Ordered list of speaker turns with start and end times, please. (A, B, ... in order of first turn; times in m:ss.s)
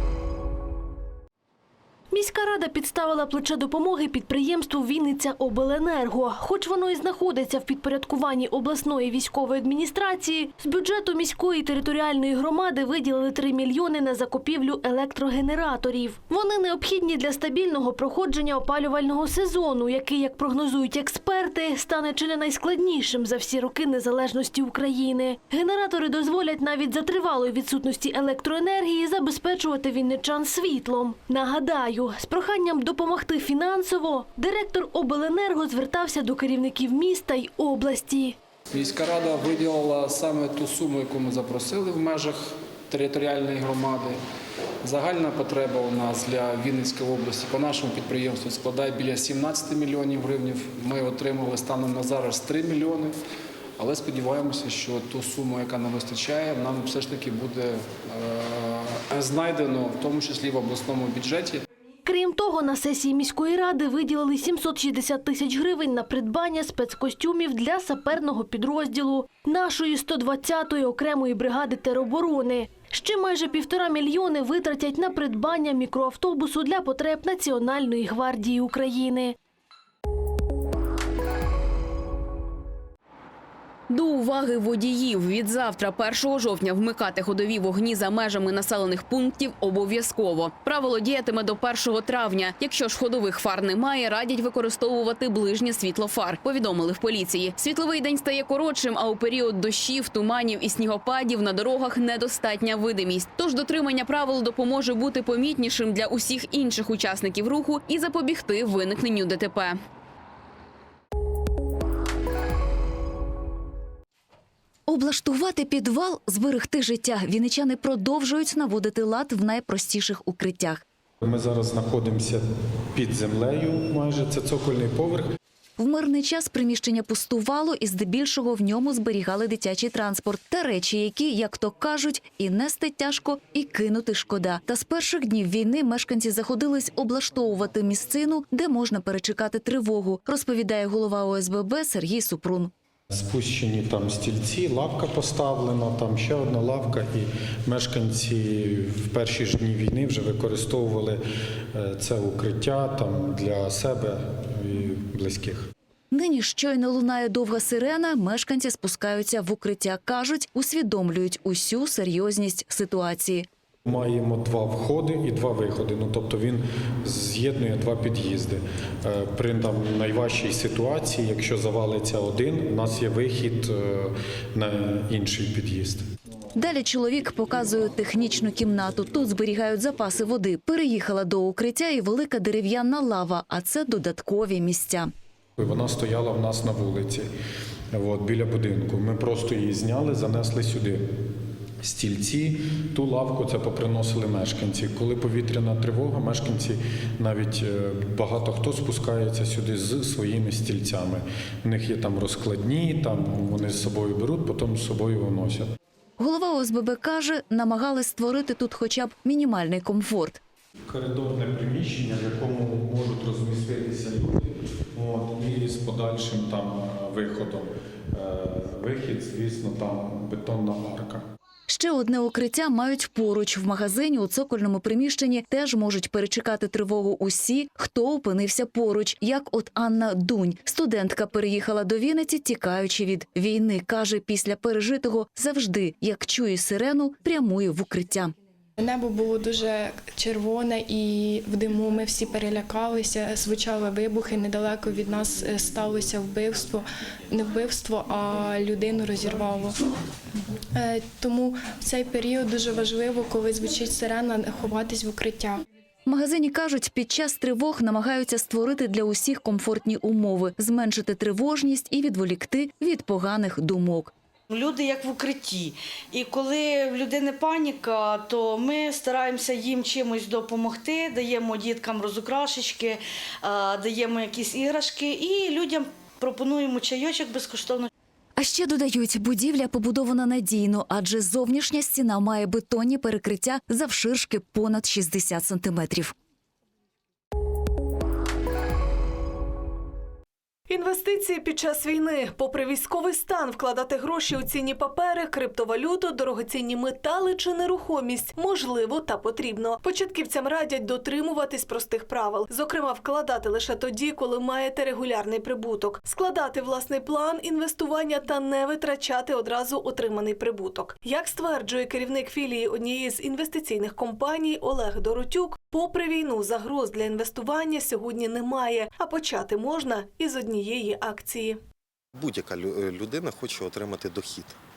0:02.2-0:38.4 A
0:38.7-0:42.4 B
0:42.9-0:44.1 B
0:44.8-0:53.1 B
0:53.8-0:58.6 B
0:59.1-1:01.6 B
1:02.1-1:19.3 A
1:23.9-1:49.8 C
1:54.9-2:00.8 D
2:01.2-2:02.4 E
2:03.0-2:05.2 E
2:05.8-2:22.7 D
2:23.1-2:31.2 E
2:31.7-2:35.7 E
2:36.1-2:43.5 D
2:43.9-2:56.0 E
2:56.6-3:05.1 D
3:05.6-3:07.3 E
3:07.9-3:11.0 E
3:11.8-3:25.6 E
3:26.2-3:30.4 D
3:30.9-3:41.2 E
3:41.7-3:58.3 D
3:58.8-4:09.8 F
4:10.8-4:15.6 F
4:16.1-4:24.1 D
4:24.5-4:37.9 G
4:38.4-4:46.1 D
4:50.7-5:21.6 H
5:22.2-5:24.6 I